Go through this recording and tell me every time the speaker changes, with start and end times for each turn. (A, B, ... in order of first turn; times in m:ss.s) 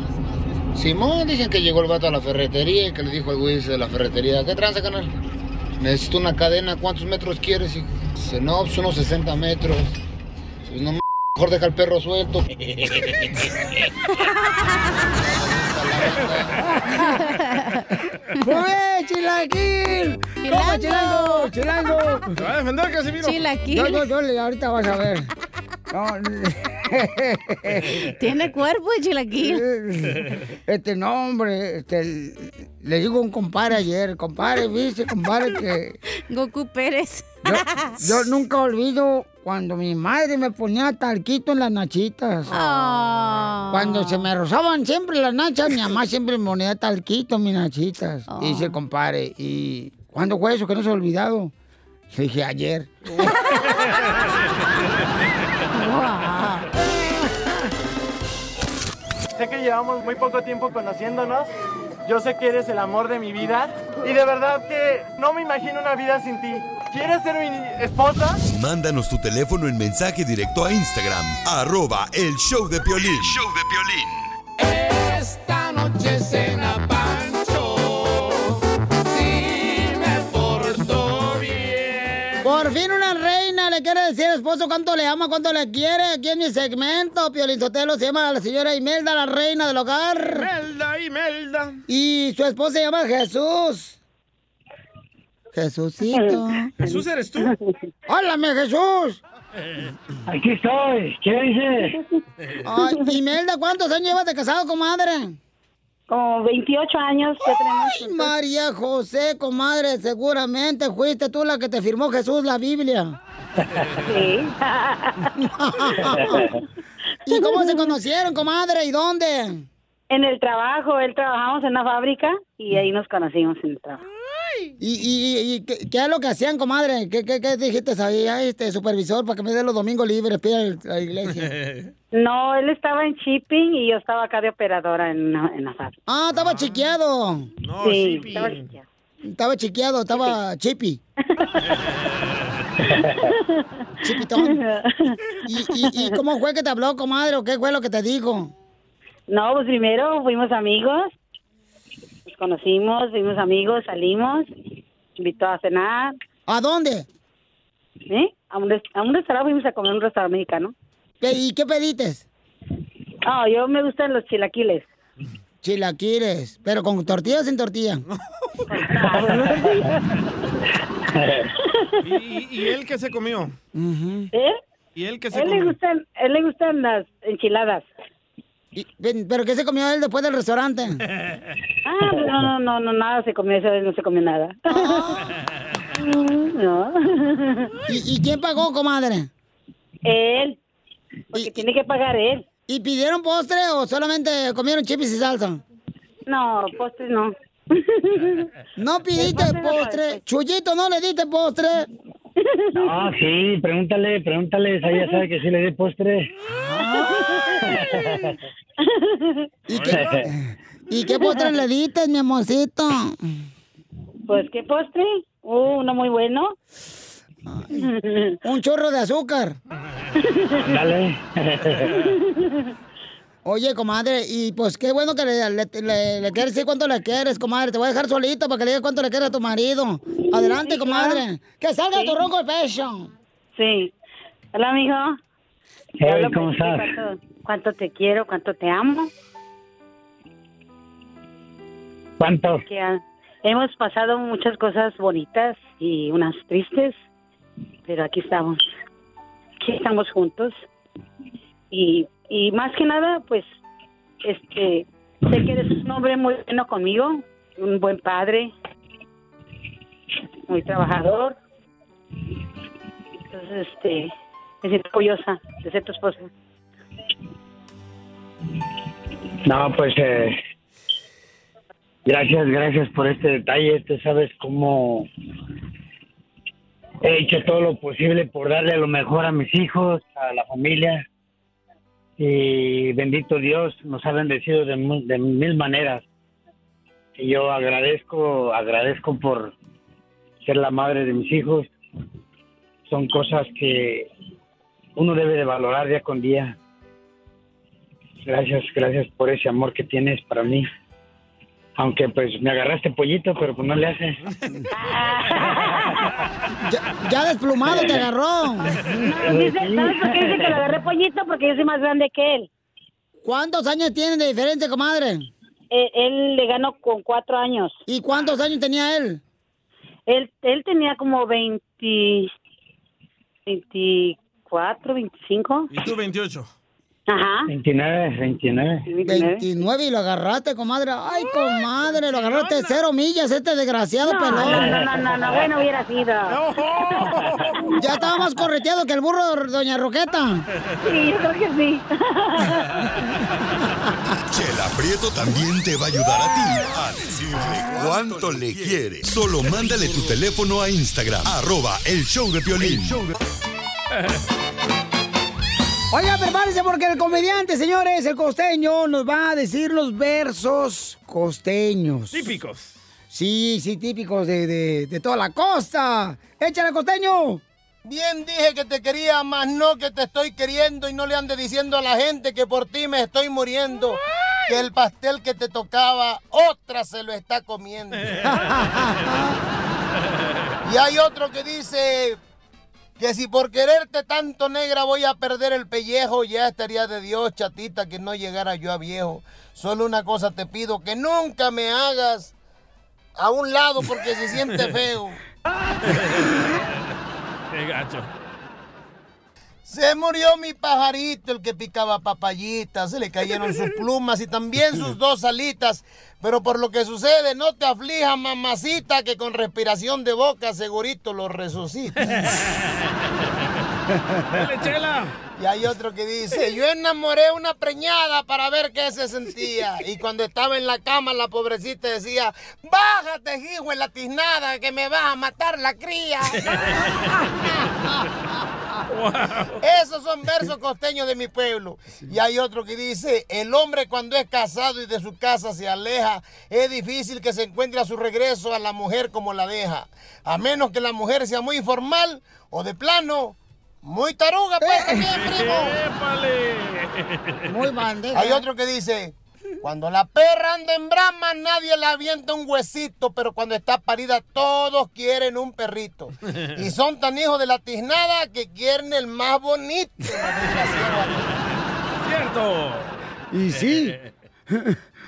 0:00.9-0:05.0 A
0:05.8-0:07.8 A
0:08.4-0:09.5 A
0:11.6-0:12.3 A
0:15.5-0:16.0 A
0:16.0-0:16.3 B
0:16.8-0:17.2 C
0:17.0-0:17.8 D
0:18.4-0:22.2 C
0:20.4-0:21.5 D
0:22.4-0:23.5 B
0:23.2-0:24.0 D
0:23.7-0:25.3 C
0:25.9-0:28.1 C
0:28.2-0:29.6 D
0:29.4-0:36.0 C
0:36.3-0:37.9 D
0:37.4-0:42.5 C
0:42.5-0:44.3 D
0:42.7-0:43.0 B
0:43.7-0:51.5 C
0:48.3-0:48.7 D
0:52.1-0:52.9 C
0:53.5-0:53.7 D
0:55.7-0:56.7 D
0:59.4-1:01.5 E
1:02.0-1:08.4 E
1:08.5-1:14.3 F
1:19.8-1:22.5 B
1:22.4-1:30.5 C
1:30.3-1:31.8 B
1:31.9-1:34.0 C
1:35.5-1:36.7 C
1:36.1-1:37.7 G
1:36.8-1:37.5 B
1:38.1-1:39.2 C
1:40.3-1:41.9 H
1:42.6-1:45.4 C
1:42.8-1:43.1 G
1:46.1-1:48.3 G
1:47.6-1:53.2 C
1:54.0-1:55.3 G
1:55.5-1:56.4 C
1:56.0-1:56.5 H
1:57.2-1:59.6 C
1:57.3-1:57.9 G
2:00.1-2:04.0 G
2:04.8-2:11.5 C
2:11.3-2:11.9 B
2:12.1-2:15.9 G
2:16.1-2:17.5 C
2:16.3-2:16.9 B
2:17.6-2:18.7 B
2:17.8-2:18.8 G
2:19.2-2:21.0 C
2:23.0-2:23.4 G
2:24.0-2:24.6 C
2:24.2-2:26.2 G
2:25.5-2:28.5 C
2:29.3-2:31.1 G
2:32.3-2:34.5 G
2:35.2-2:36.1 G
2:36.5-2:37.0 C
2:38.1-2:40.7 G
2:41.2-2:42.2 C
2:43.2-2:44.8 G
2:45.6-2:48.0 C
2:48.1-2:48.6 B
2:48.7-2:50.0 G
2:49.1-2:49.5 H
2:51.1-2:51.5 H
2:52.0-2:53.5 B
2:53.7-2:54.3 C
2:55.0-2:55.8 B
2:55.3-2:57.9 G
2:58.7-3:01.0 C
3:01.8-3:05.2 G
3:05.9-3:07.7 G
3:07.9-3:09.3 C
3:10.1-3:10.6 G
3:11.3-3:12.4 G
3:11.4-3:11.6 C
3:12.7-3:15.6 C
3:16.3-3:18.4 G
3:18.8-3:21.9 C
3:19.1-3:20.2 G
3:22.5-3:22.8 G
3:22.8-3:26.3 H
3:26.5-3:27.2 C
3:26.8-3:27.5 G
3:27.7-3:28.3 H
3:28.9-3:29.3 G
3:29.7-3:33.2 C
3:29.7-3:30.2 B
3:29.9-3:30.2 H
3:31.1-3:31.6 G
3:34.3-3:36.5 G
3:37.5-3:37.8 C
3:37.7-3:38.4 G
3:38.4-3:39.6 C
3:40.3-3:40.6 G
3:40.6-3:42.0 H
3:43.4-3:53.1 C
3:50.3-3:51.2 G
3:51.9-3:52.2 G
3:53.6-3:53.9 G
3:54.5-3:55.2 G
3:56.0-3:56.9 H
3:56.0-3:59.1 G
4:02.2-4:02.6 H
4:02.7-4:06.9 G
4:07.8-4:08.6 G
4:09.6-4:10.6 G
4:11.7-4:13.5 G
4:14.2-4:18.5 G
4:20.5-4:21.4 G
4:23.3-4:24.1 G
4:24.6-4:26.3 G
4:29.4-4:30.4 H
4:32.0-4:35.1 H
4:37.0-4:41.0 H
4:42.2-4:46.0 H
4:47.2-4:49.5 H
4:50.4-4:51.7 H
4:52.9-4:54.1 H
4:55.0-4:56.5 H
4:58.2-5:00.6 H
5:01.8-5:04.2 H
5:04.7-5:06.0 G
5:06.6-5:08.8 C
5:08.8-5:12.5 G
5:09.1-5:10.6 H
5:13.2-5:15.3 C
5:15.7-5:17.8 G
5:17.9-5:19.2 C
5:20.1-5:22.3 G
5:23.5-5:25.7 G
5:25.7-5:26.5 B
5:27.1-5:27.5 G
5:27.5-5:28.8 H
5:28.9-5:29.4 G
5:29.0-5:34.6 C
5:31.8-5:32.8 B
5:34.0-5:37.0 G
5:34.5-5:34.9 H
5:36.3-5:37.5 B
5:37.8-5:40.4 C
5:40.8-5:42.7 G
5:44.3-5:53.1 F
5:55.9-6:02.3 C
6:02.1-6:02.7 B
6:03.1-6:07.4 C
6:07.8-6:18.1 I
6:18.1-6:18.8 B
6:18.4-6:18.9 C
6:20.6-6:22.2 I
6:23.0-6:32.3 I
6:33.2-6:35.2 I
6:35.8-6:36.6 B
6:37.5-6:38.1 B
6:39.6-6:52.2 I
6:52.0-6:52.8 B
6:54.3-6:55.1 B
6:55.4-7:06.4 I
7:06.4-7:06.8 B
7:08.9-7:09.6 B
7:09.6-7:25.3 I
7:24.6-7:25.8 C
7:25.1-7:27.5 B
7:27.5-7:28.4 C
7:28.1-7:41.2 I
7:42.0-7:42.9 B
7:43.3-7:44.0 C
7:43.5-7:44.0 B
7:44.5-7:44.8 C